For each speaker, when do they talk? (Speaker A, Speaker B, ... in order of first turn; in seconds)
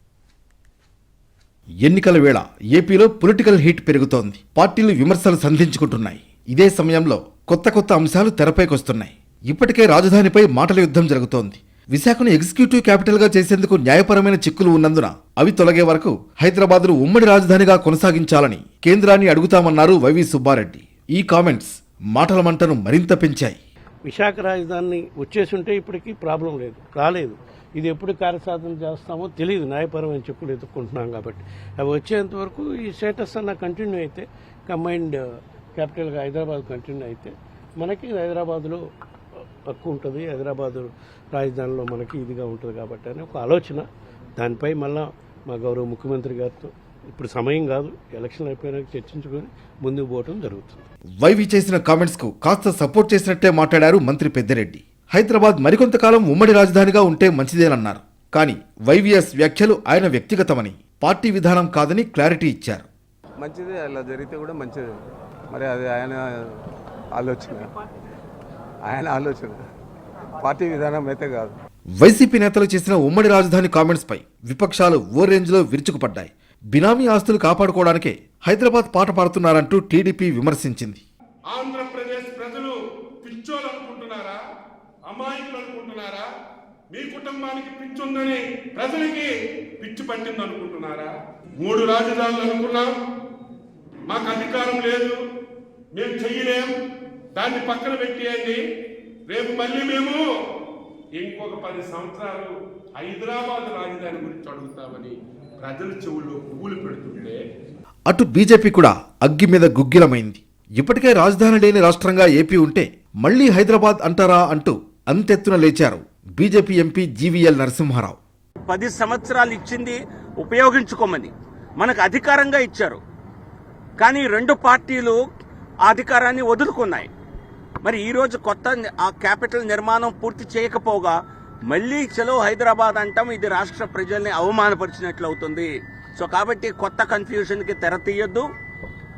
Speaker A: 1.8-23.6, 51.2-62.9, 72.0-81.0, 108.1-118.2
Speaker B: 24.1-35.2, 35.8-38.8, 39.7-50.8
Speaker C: 63.4-64.9, 65.5-66.6, 67.2-67.7, 68.9-69.6, 70.4-71.6
Speaker D: 81.5-84.4, 85.1-86.3, 86.9-92.9, 94.1-95.2, 96.0-96.8, 97.4-98.6, 99.3-100.2, 101.2-107.4
Speaker E: 118.7-123.0, 124.0-125.2, 125.8-127.1, 127.8-131.2, 131.7-138.5